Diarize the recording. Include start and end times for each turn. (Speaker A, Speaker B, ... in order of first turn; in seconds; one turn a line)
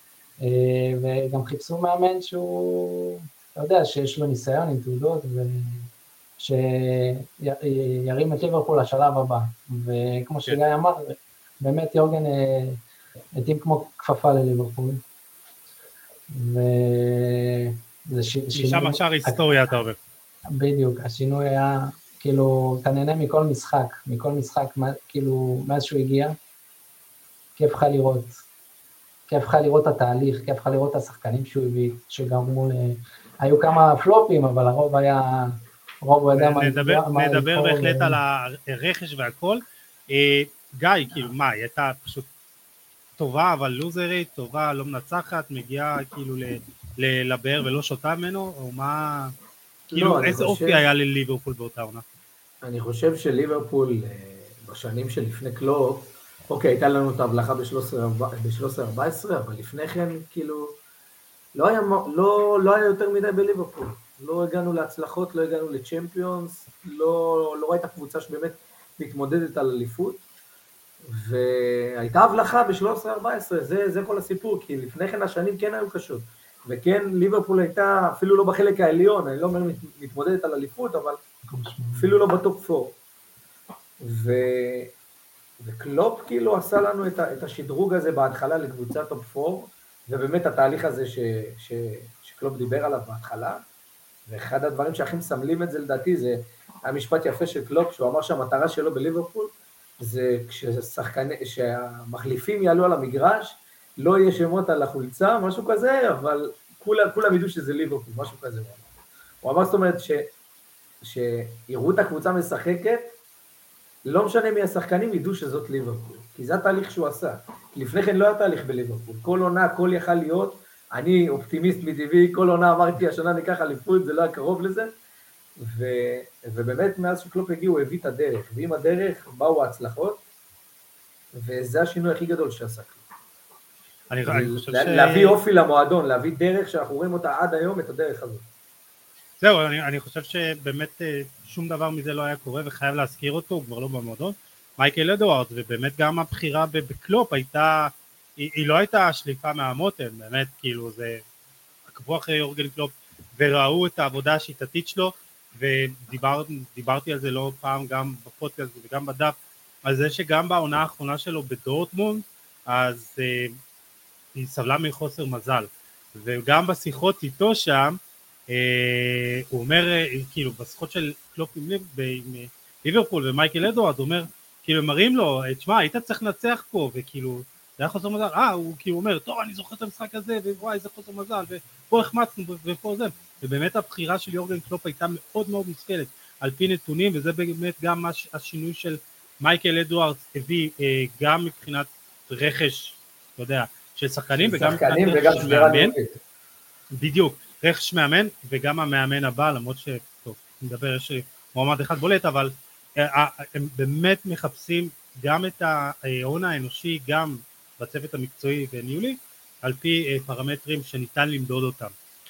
Speaker A: 0.4-12.8
Speaker A: 13.3-15.0
Speaker A: 16.3-19.4
Speaker B: 18.5-20.0
Speaker A: 20.5-26.4
Speaker A: 27.6-28.3
Speaker A: 29.3-38.2
Speaker B: 36.3-42.3
Speaker B: 43.2-49.3
Speaker C: 49.9-50.8
Speaker B: 49.9-52.0
Speaker C: 52.6-60.8
Speaker C: 61.5-70.2
Speaker C: 71.1-81.2
Speaker A: 81.5-82.1
Speaker C: 81.9-82.9
Speaker C: 84.0-84.9
Speaker C: 85.6-93.6
Speaker C: 94.3-108.8
Speaker C: 109.4-110.3
Speaker C: 111.0-113.0
Speaker C: 114.0-124.9
Speaker C: 125.6-130.2
Speaker C: 131.3-133.0
Speaker B: 134.1-135.4
Speaker C: 134.2-138.4
Speaker B: 139.4-151.2
Speaker B: 151.9-163.6
Speaker B: 164.3-168.0
Speaker B: 168.5-195.9
Speaker C: 194.3-196.2
Speaker B: 197.0-211.9